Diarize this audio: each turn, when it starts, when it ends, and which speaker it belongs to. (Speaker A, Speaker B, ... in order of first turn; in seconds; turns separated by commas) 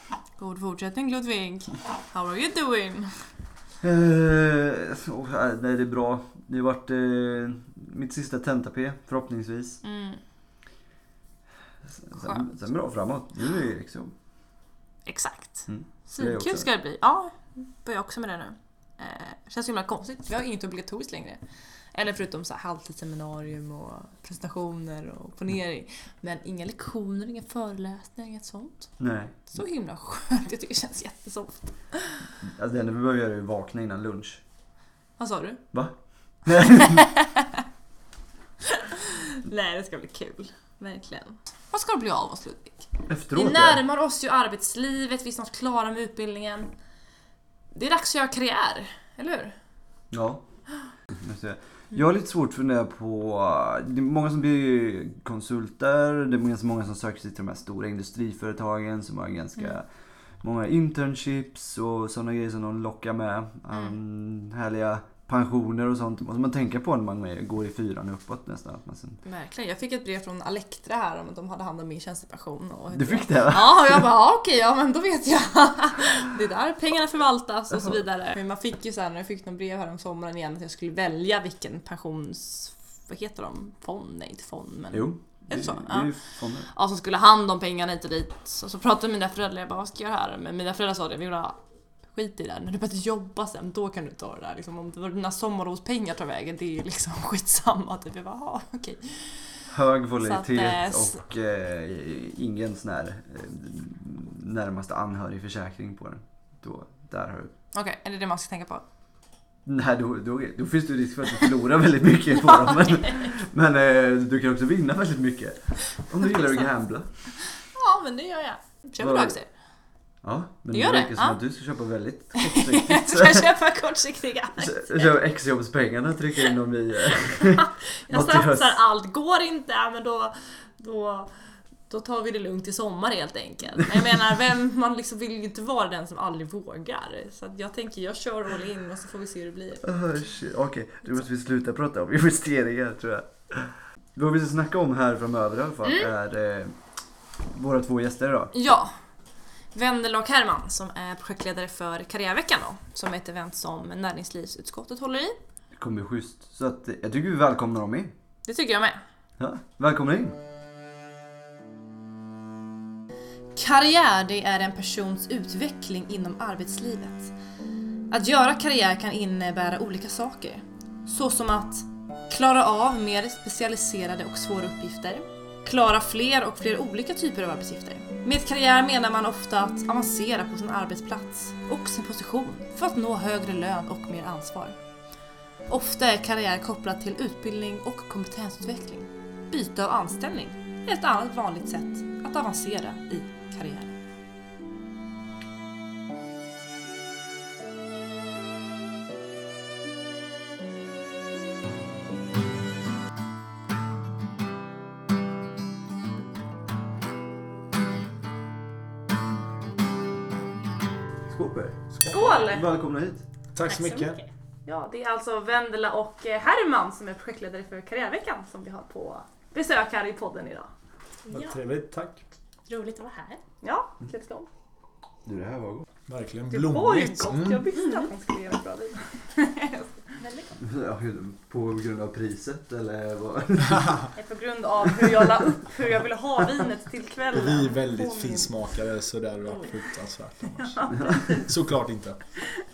Speaker A: 0.4-3.2, Speaker B: 3.8-9.8, Speaker A: 9.8-10.2, Speaker B: 11.9-14.1, Speaker A: 12.2-12.5, Speaker A: 15.1-21.4, Speaker B: 15.7-16.7, Speaker A: 21.9-28.9, Speaker B: 29.0-29.5, Speaker A: 29.4-32.1, Speaker B: 32.4-34.4, Speaker A: 35.2-35.6, Speaker B: 35.7-37.0, Speaker A: 36.9-37.4, Speaker A: 38.7-46.7, Speaker B: 43.1-43.8, Speaker A: 47.7-49.5, Speaker B: 50.1-50.4, Speaker B: 51.1-69.2, Speaker A: 69.2-91.6, Speaker B: 72.9-73.8, Speaker B: 84.9-86.7, Speaker A: 92.1-99.6, Speaker B: 99.7-107.5, Speaker A: 100.2-101.2, Speaker A: 107.7-108.8, Speaker B: 109.7-117.1, Speaker A: 116.2-116.7, Speaker A: 117.7-119.5, Speaker B: 119.0-119.3, Speaker B: 120.2-123.5, Speaker A: 120.7-121.4, Speaker A: 122.4-125.1, Speaker B: 124.6-128.8, Speaker A: 128.0-131.3, Speaker A: 131.9-139.8, Speaker B: 139.8-146.8, Speaker B: 147.5-148.5, Speaker A: 148.5-148.9, Speaker A: 149.7-155.4, Speaker B: 155.7-158.1, Speaker A: 158.4-159.0, Speaker B: 159.4-160.3, Speaker A: 163.5-167.3, Speaker A: 168.1-184.8, Speaker A: 185.7-193.9, Speaker B: 211.3-213.2, Speaker C: 211.9-212.4, Speaker A: 212.1-212.6, Speaker C: 213.5-214.2, Speaker D: 213.7-214.3, Speaker A: 214.7-220.7, Speaker C: 221.3-222.2, Speaker D: 221.3-221.6, Speaker D: 222.7-223.4, Speaker A: 223.6-224.5, Speaker B: 225.2-225.9, Speaker C: 226.1-227.7, Speaker A: 226.5-230.1, Speaker D: 227.8-228.1, Speaker D: 230.2-230.5, Speaker B: 230.6-234.1, Speaker A: 234.2-238.5, Speaker C: 237.3-242.2, Speaker A: 240.5-241.5, Speaker B: 240.9-241.3